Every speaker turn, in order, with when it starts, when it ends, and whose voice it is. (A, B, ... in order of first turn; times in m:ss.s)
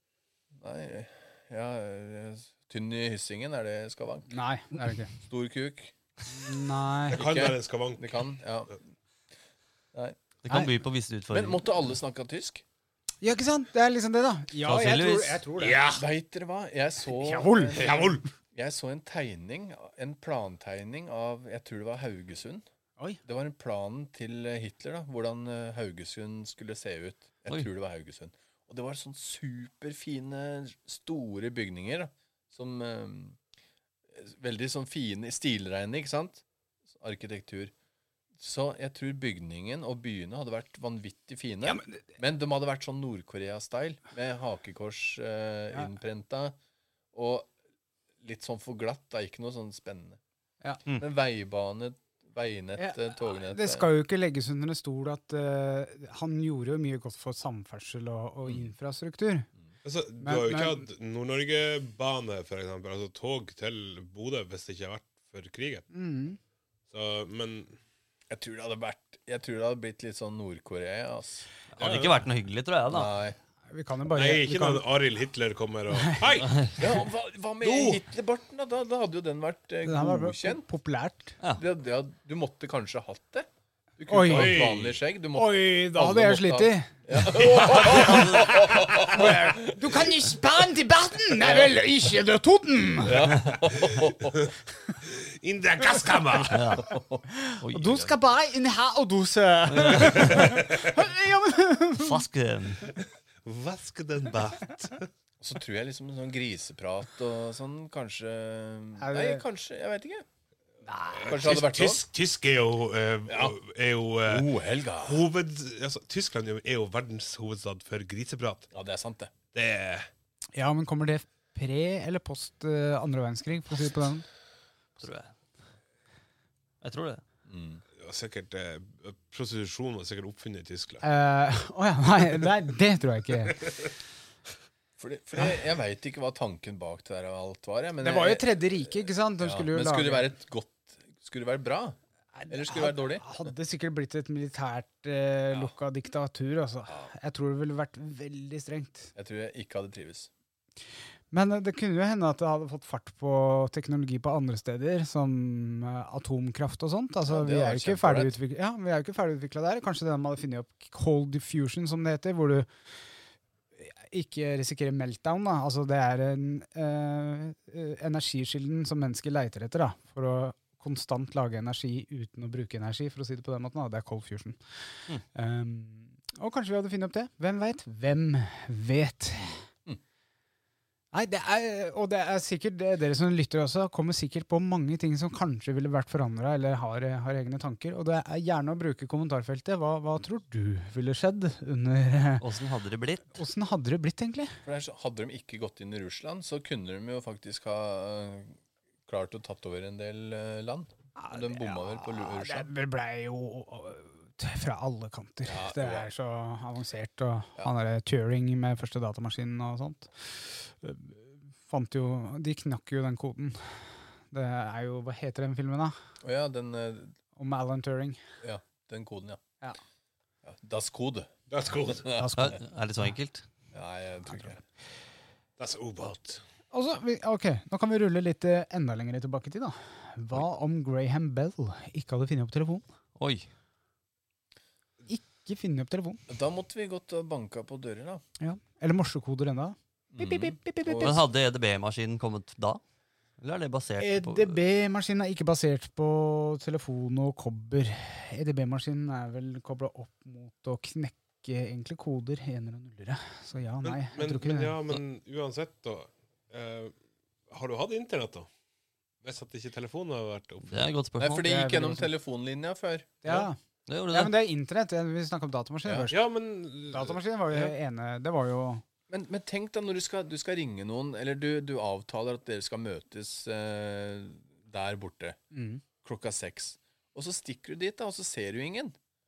0:00.6-0:04.4 A
0:04.3-0:05.1 B
0:05.3-0:05.9 A
0:06.3-0:07.2 B
0:07.1-0:08.2 C
0:07.1-0:08.8 A
0:10.4-0:11.6 D
0:11.3-0:12.6 A
0:13.2-0:15.8 B
0:14.7-0:15.4 D
0:15.6-0:16.1 C
0:15.9-0:22.6 A
0:17.2-0:17.8 B
0:17.8-0:18.2 C
0:23.2-0:33.4 A
0:34.1-0:37.7 A
0:38.4-0:46.6 A
0:41.6-0:42.0 B
0:47.1-0:47.5 A
0:48.2-0:50.2 A
0:50.9-0:53.9 A
0:52.8-0:59.5 B
0:59.8-1:05.9 C
1:00.2-1:00.9 B
1:05.9-1:06.4 B
1:06.9-1:07.8 C
1:08.3-1:11.5 A
1:11.7-1:13.1 D
1:11.8-1:12.2 C
1:12.9-1:13.4 A
1:13.7-1:14.9 B
1:14.1-1:16.8 C
1:16.8-1:20.7 A
1:17.6-1:18.0 C
1:19.8-1:21.4 B
1:21.5-1:23.5 A
1:24.0-1:30.3 A
1:24.1-1:24.7 B
1:24.2-1:25.0 C
1:25.3-1:26.9 B
1:27.2-1:29.1 C
1:28.0-1:28.3 D
1:29.1-1:33.3 B
1:31.4-1:31.8 A
1:33.0-1:34.5 A
1:35.0-1:36.8 C
1:36.4-1:36.9 D
1:36.7-1:37.2 A
1:37.3-1:42.2 B
1:37.6-1:38.1 D
1:39.7-1:40.7 D
1:40.4-1:40.9 C
1:41.9-1:42.9 D
1:43.4-1:45.1 C
1:45.4-1:50.2 A
1:49.0-1:49.4 B
1:50.9-1:51.3 B
1:51.1-1:54.5 C
1:51.2-1:52.0 A
1:53.3-1:53.6 A
1:54.2-1:55.3 A
1:55.0-1:58.7 C
1:58.7-1:59.3 A
1:59.5-2:00.1 C
2:00.6-2:04.2 B
2:05.0-2:05.3 D
2:06.8-2:07.2 D
2:07.5-2:07.8 A
2:08.0-2:11.0 C
2:11.0-2:13.7 B
2:15.0-2:18.8 A
2:18.0-2:20.3 B
2:19.4-2:22.0 A
2:22.4-2:29.1 B
2:22.5-2:23.2 A
2:29.2-2:30.3 A
2:31.3-2:42.7 B
2:37.3-2:38.4 A
2:43.8-2:54.6 B
2:55.3-2:59.6 B
3:01.1-3:12.4 B
3:12.4-3:13.4 D
3:13.3-3:14.6 B
3:14.6-3:22.7 A
3:21.2-3:36.0 B
3:25.5-3:26.1 A
3:36.2-3:37.2 A
3:37.4-3:38.2 B
3:38.4-3:39.4 A
3:40.4-3:42.6 A
3:41.5-3:42.1 C
3:42.1-3:42.6 B
3:42.4-3:43.4 D
3:43.7-3:44.6 A
3:45.6-3:46.4 C
3:46.7-3:52.8 B
3:53.2-3:53.5 D
3:55.1-3:56.2 B
3:56.3-3:58.2 A
3:58.4-4:01.2 B
4:00.1-4:01.1 A
4:00.9-4:02.8 D
4:03.4-4:04.6 D
4:04.0-4:14.8 B
4:13.8-4:17.0 C
4:17.5-4:18.5 C
4:19.2-4:20.7 C
4:20.6-4:21.5 D
4:21.2-4:23.2 A
4:21.4-4:22.1 B
4:23.2-4:23.6 B
4:23.9-4:24.3 D
4:24.1-4:26.2 B
4:25.8-4:26.1 A
4:26.1-4:27.8 C
4:26.9-4:28.8 B
4:29.1-4:35.4 A
4:35.5-4:35.8 B
4:36.0-4:39.0 A